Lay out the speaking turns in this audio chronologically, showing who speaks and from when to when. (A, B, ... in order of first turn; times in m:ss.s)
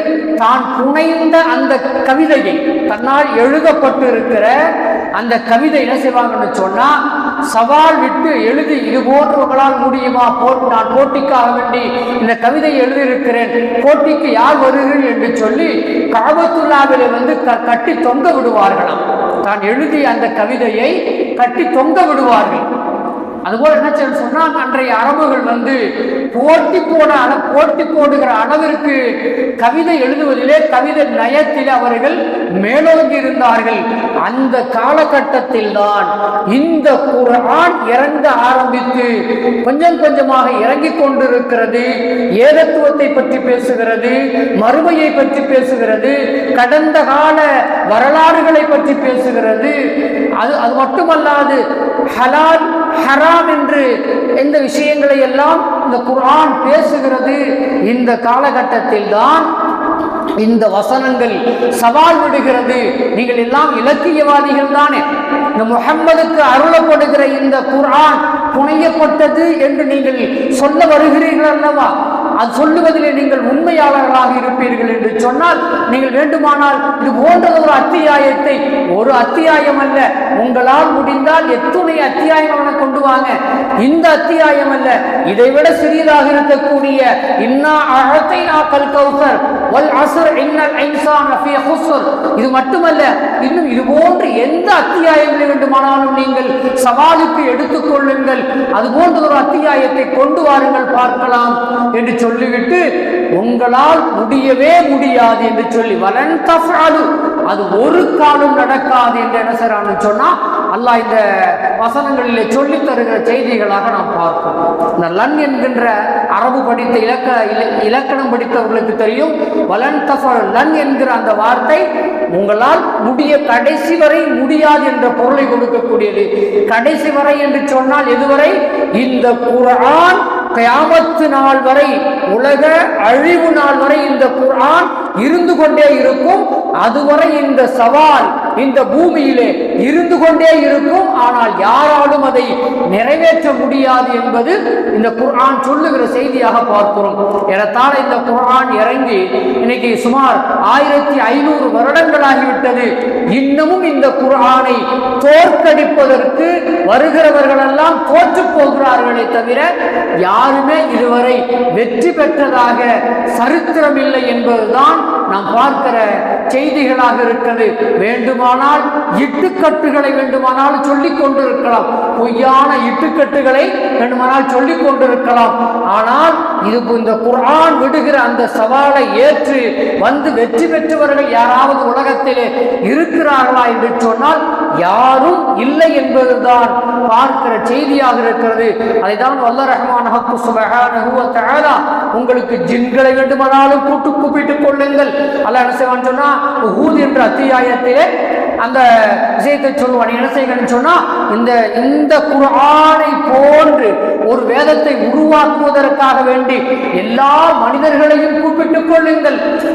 0:00.4-0:04.5 A
0:05.2-0:06.9 A
0:07.5-0:22.6 A
0:23.4-0:25.8 A
0:26.3-0:29.0 A
0:29.6-0:39.1 A
0:39.6-0:49.8 A
0:50.4-0:53.9 A
0:54.4-0:59.5 A
1:00.4-1:05.0 A
1:05.6-1:42.8 A
1:43.4-2:39.7 A
2:40.2-3:18.1 A
3:18.6-3:29.4 A